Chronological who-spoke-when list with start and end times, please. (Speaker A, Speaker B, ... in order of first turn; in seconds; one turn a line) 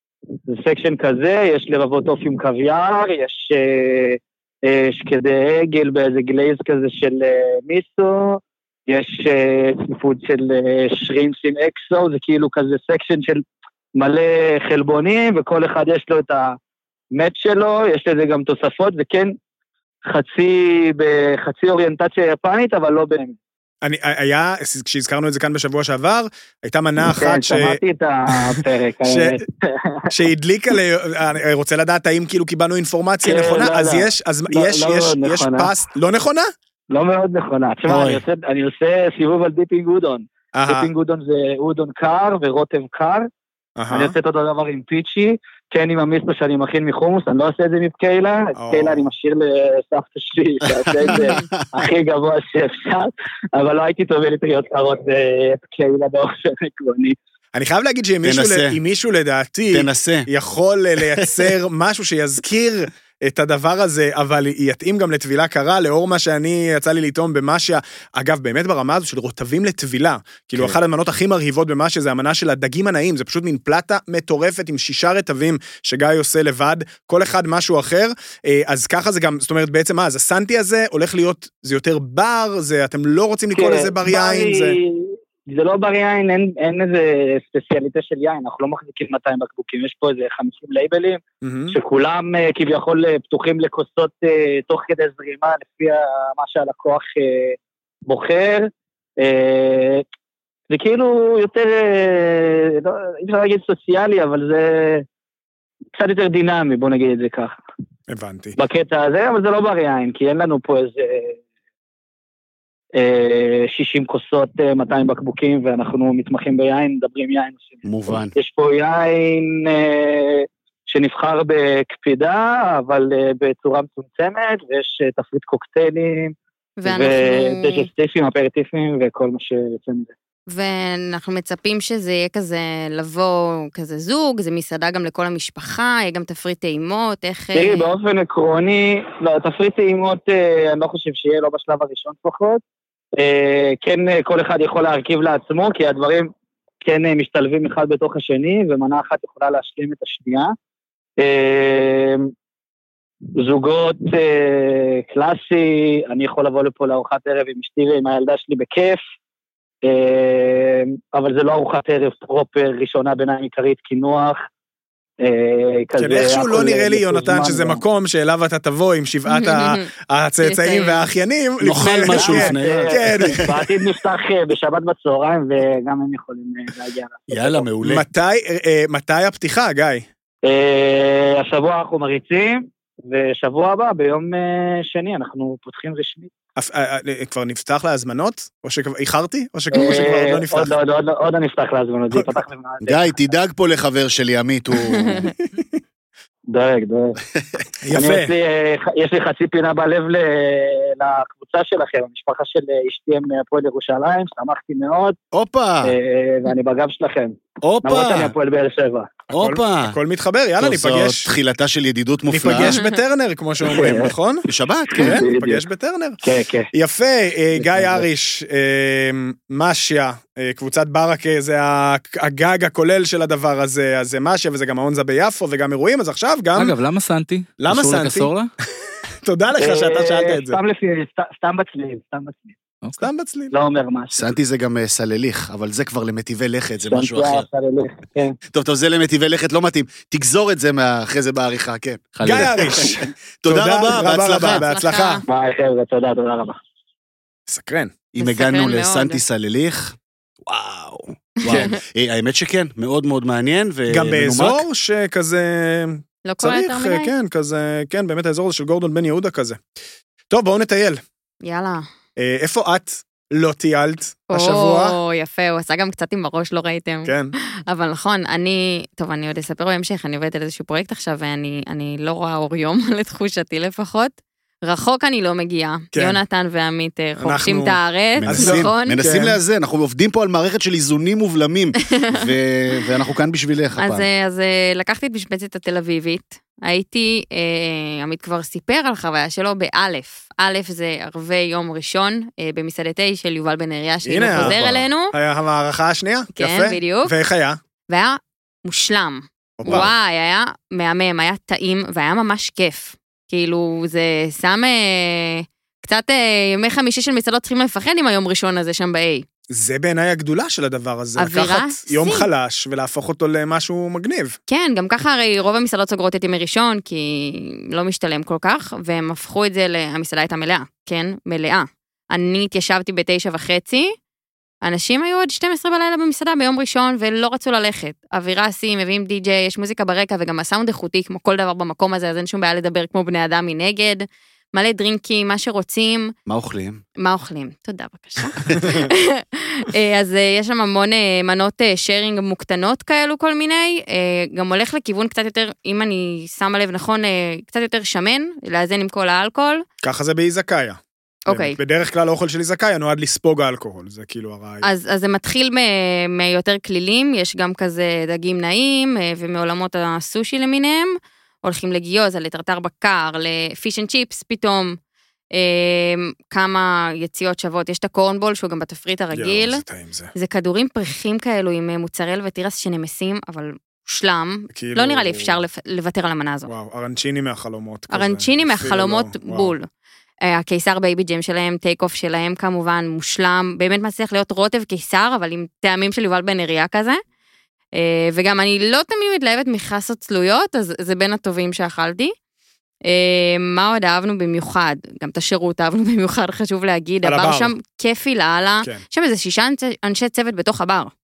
Speaker A: 0.5-13.4
Speaker A: 13.9-16.6
Speaker A: 17.1-19.3
Speaker A: 20.1-23.4
Speaker B: 23.8-27.8
Speaker A: 27.0-30.1
Speaker B: 28.3-29.3
Speaker B: 30.1-36.5
Speaker A: 33.2-35.7
Speaker A: 36.9-43.3
Speaker C: 37.9-38.2
Speaker B: 40.5-40.9
Speaker B: 43.8-44.1
Speaker A: 43.9-57.2
Speaker B: 48.6-49.0
Speaker D: 51.0-51.4
Speaker C: 51.0-51.5
Speaker B: 57.5-84.8
Speaker C: 58.2-58.8
Speaker C: 59.7-60.3
Speaker A: 83.5-100.0
Speaker B: 91.4-91.8
Speaker A: 100.7-105.0
Speaker A: 106.0-107.6
Speaker B: 108.1-108.5
Speaker A: 108.6-111.4
Speaker A: 112.9-130.1
Speaker C: 117.8-118.3
Speaker D: 126.8-127.8
Speaker D: 130.5-137.8
Speaker A: 137.5-142.6
Speaker A: 143.2-146.3
Speaker A: 146.8-150.5
Speaker A: 151.2-152.3
Speaker A: 153.3-159.0
Speaker A: 159.8-164.4
Speaker A: 165.2-167.8
Speaker B: 166.0-173.6
Speaker D: 169.3-169.8
Speaker D: 170.4-171.0
Speaker C: 171.6-173.5
Speaker A: 172.0-177.7
Speaker C: 177.3-178.0
Speaker B: 177.8-180.1
Speaker A: 180.4-186.3
Speaker B: 186.6-190.7
Speaker A: 189.7-193.2
Speaker C: 192.8-195.3
Speaker A: 196.5-197.2
Speaker B: 197.8-198.3
Speaker A: 197.9-205.2
Speaker C: 205.3-205.9
Speaker A: 205.8-209.2
Speaker C: 207.6-208.3
Speaker C: 209.3-210.0
Speaker B: 209.4-211.3
Speaker C: 210.6-212.8
Speaker B: 212.3-214.4
Speaker A: 213.7-214.1
Speaker C: 214.4-215.2
Speaker A: 214.9-215.6
Speaker B: 215.0-216.2
Speaker A: 216.2-216.7
Speaker B: 216.7-226.7
Speaker A: 217.8-218.0
Speaker E: 226.5-228.5
Speaker B: 227.6-228.3
Speaker B: 229.2-230.6
Speaker A: 229.6-232.5
Speaker B: 233.0-233.5
Speaker A: 233.5-234.2
Speaker C: 234.1-237.5
Speaker A: 236.9-238.4
Speaker C: 238.5-244.6
Speaker E: 242.2-242.9
Speaker B: 242.2-245.2
Speaker D: 244.6-245.2
Speaker A: 245.3-246.6
Speaker B: 247.5-247.9
Speaker C: 248.1-254.6
Speaker D: 248.2-249.2
Speaker B: 253.9-259.6
Speaker D: 256.2-257.1
Speaker B: 260.3-261.0
Speaker D: 261.4-261.8
Speaker B: 262.2-264.9
Speaker D: 264.3-267.1
Speaker B: 267.1-267.3
Speaker D: 267.7-274.1
Speaker D: 274.6-279.0
Speaker B: 275.9-276.2
Speaker B: 277.2-277.8
Speaker C: 278.1-284.1
Speaker B: 278.3-279.4
Speaker D: 283.8-295.1
Speaker B: 294.0-297.6
Speaker C: 294.4-294.8
Speaker D: 296.4-297.1
Speaker D: 297.9-309.2
Speaker B: 299.6-299.9
Speaker B: 309.5-314.4
Speaker D: 311.2-312.3
Speaker D: 314.5-323.9
Speaker D: 324.6-336.1
Speaker C: 336.3-336.8
Speaker D: 337.0-349.6
Speaker B: 349.8-354.7
Speaker D: 351.3-351.6
Speaker D: 354.6-364.8
Speaker D: 365.3-369.6
Speaker B: 369.1-370.1
Speaker D: 370.1-376.5
Speaker B: 374.5-375.3
Speaker B: 376.5-379.5
Speaker D: 377.9-379.7
Speaker D: 380.2-387.0
Speaker D: 387.7-392.1
Speaker D: 392.8-400.9
Speaker B: 397.0-397.5